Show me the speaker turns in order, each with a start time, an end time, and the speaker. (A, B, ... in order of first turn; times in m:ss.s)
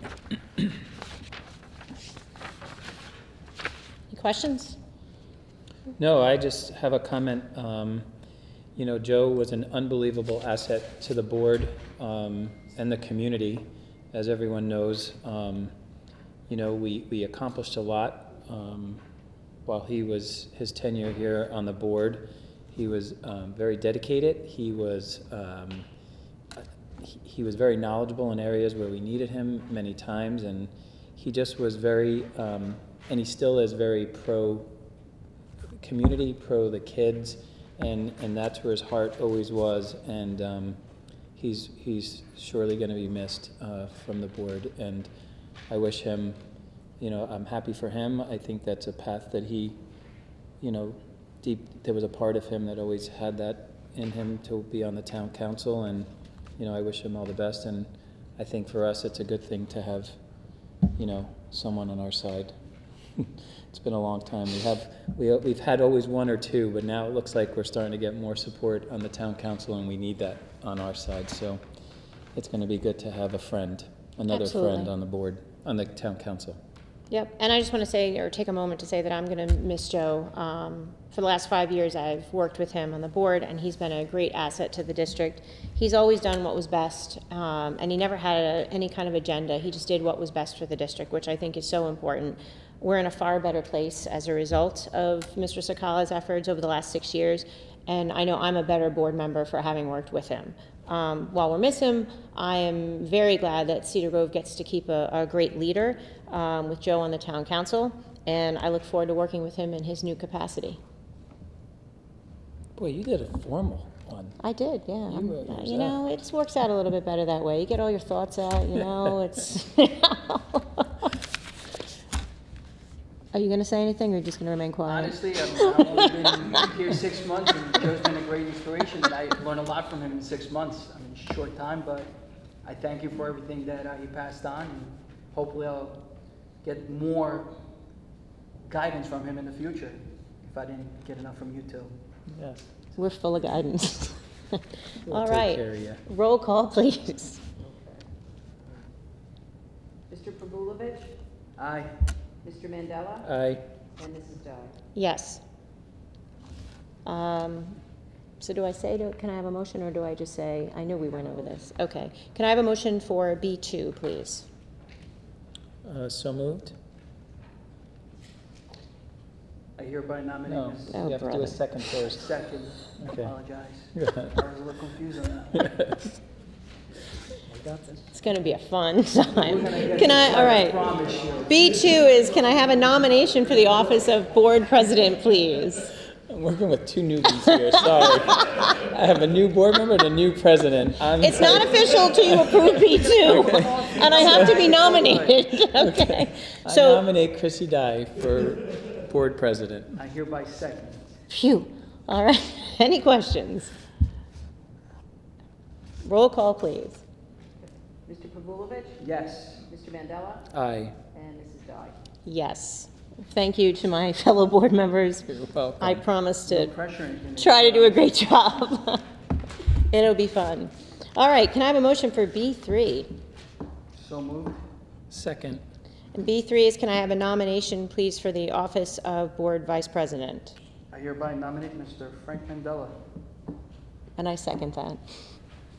0:04.1-0:04.8 A
0:06.0-0:08.1 B
0:08.8-0:15.7 B
0:16.5-0:19.0 B
0:19.7-0:25.9 B
0:26.6-0:34.7 B
0:35.8-0:40.8 B
0:41.4-0:45.1 B
0:45.7-0:46.4 B
0:47.0-0:49.8 B
0:50.6-1:00.2 B
1:01.0-1:02.5 B
1:03.2-1:11.6 B
1:12.4-1:16.6 B
1:14.3-1:14.9 A
1:17.1-1:50.8 A
1:52.8-1:54.4 B
1:54.4-2:01.1 A
1:55.1-1:56.0 B
2:03.3-2:06.6 A
2:04.8-2:12.1 C
2:12.6-2:16.0 C
2:16.6-2:17.5 C
2:18.7-2:21.9 C
2:22.3-2:22.6 B
2:23.0-2:27.4 A
2:25.0-2:26.0 B
2:27.6-2:28.0 D
2:30.1-2:31.1 D
2:31.6-2:32.0 C
2:32.4-2:33.3 D
2:33.2-2:33.6 B
2:34.0-2:34.8 D
2:35.0-2:35.4 A
2:37.0-2:37.8 A
2:38.4-2:44.5 A
2:45.8-2:46.8 B
2:49.8-2:51.0 C
2:50.5-2:52.3 B
2:50.9-2:51.6 A
2:52.0-2:55.7 C
2:53.0-2:53.3 B
2:53.9-2:54.4 B
2:55.5-2:56.1 B
2:57.6-2:58.0 C
2:58.1-3:00.8 A
2:59.4-3:01.8 C
3:01.5-3:05.9 A
3:06.3-3:14.8 B
3:11.2-3:17.0 A
3:12.8-3:15.4 C
3:15.6-3:20.0 B
3:20.0-3:21.1 C
3:21.3-3:23.7 A
3:26.0-3:27.0 A
3:28.1-3:29.1 D
3:29.0-3:29.7 C
3:29.6-3:30.5 D
3:30.5-3:31.0 B
3:31.1-3:32.0 D
3:32.2-3:35.3 A
3:35.3-3:36.0 B
3:35.8-3:36.7 A
3:36.5-3:38.2 C
3:37.4-3:39.0 A
3:39.9-3:43.1 A
3:44.0-3:44.6 C
3:45.1-3:45.6 B
3:46.1-3:50.6 A
3:50.9-3:53.0 C
3:54.2-3:55.0 A